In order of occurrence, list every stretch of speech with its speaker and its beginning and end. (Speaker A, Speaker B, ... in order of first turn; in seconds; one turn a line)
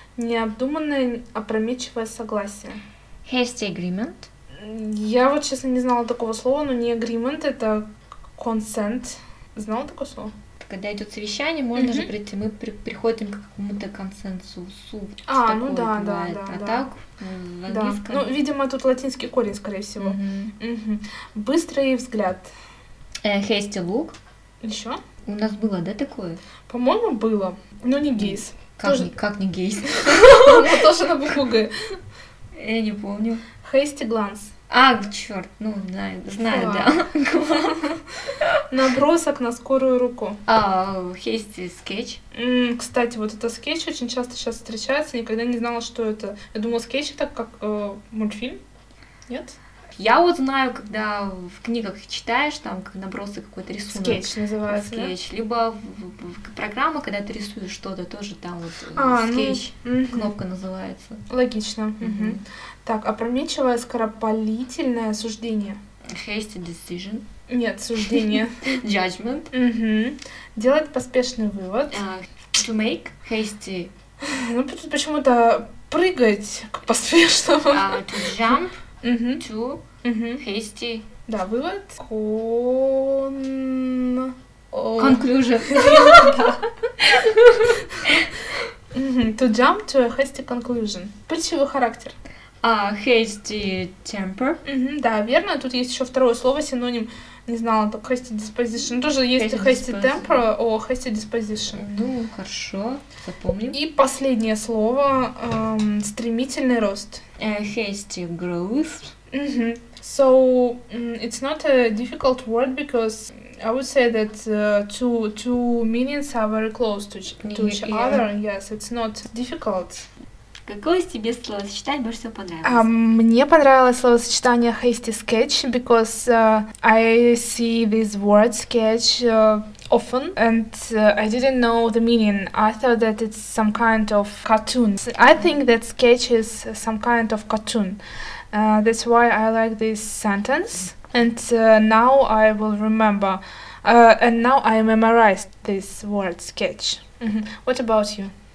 Speaker A: 0.2-2.8
Speaker B: 3.2-4.3
Speaker A: 4.6-7.8
Speaker A: 8.4-10.3
Speaker B: 10.6-18.4
Speaker A: 11.8-12.1
Speaker A: 15.3-16.9
Speaker A: 17.7-22.5
Speaker B: 20.0-20.5
Speaker B: 23.2-24.1
Speaker A: 24.6-25.0
Speaker B: 25.2-26.4
Speaker A: 26.7-29.1
Speaker B: 28.2-30.6
Speaker A: 30.1-31.7
Speaker B: 32.5-33.4
Speaker A: 33.6-34.5
Speaker B: 34.7-37.9
Speaker A: 36.5-36.9
Speaker A: 38.7-40.4
Speaker B: 40.5-42.2
Speaker A: 42.3-48.6
Speaker A: 49.3-49.6
Speaker B: 50.0-61.2
Speaker A: 53.9-55.1
Speaker A: 58.9-60.3
Speaker A: 61.3-65.8
Speaker B: 62.0-62.4
Speaker B: 66.1-67.2
Speaker A: 67.5-68.6
Speaker B: 68.1-69.5
Speaker A: 69.5-72.0
Speaker B: 71.9-73.9
Speaker A: 74.2-78.0
Speaker B: 77.7-78.8
Speaker A: 79.0-79.4
Speaker B: 79.4-79.8
Speaker A: 80.0-80.4
Speaker B: 80.4-81.0
Speaker A: 81.3-86.6
Speaker B: 85.0-88.1
Speaker A: 88.9-92.1
Speaker B: 92.6-94.6
Speaker A: 94.6-101.8
Speaker B: 99.3-100.5
Speaker B: 101.7-103.8
Speaker A: 103.7-107.2
Speaker B: 107.4-109.1
Speaker A: 109.3-120.0
Speaker B: 117.4-118.3
Speaker B: 120.7-122.9
Speaker A: 122.6-138.0
Speaker A: 138.5-148.3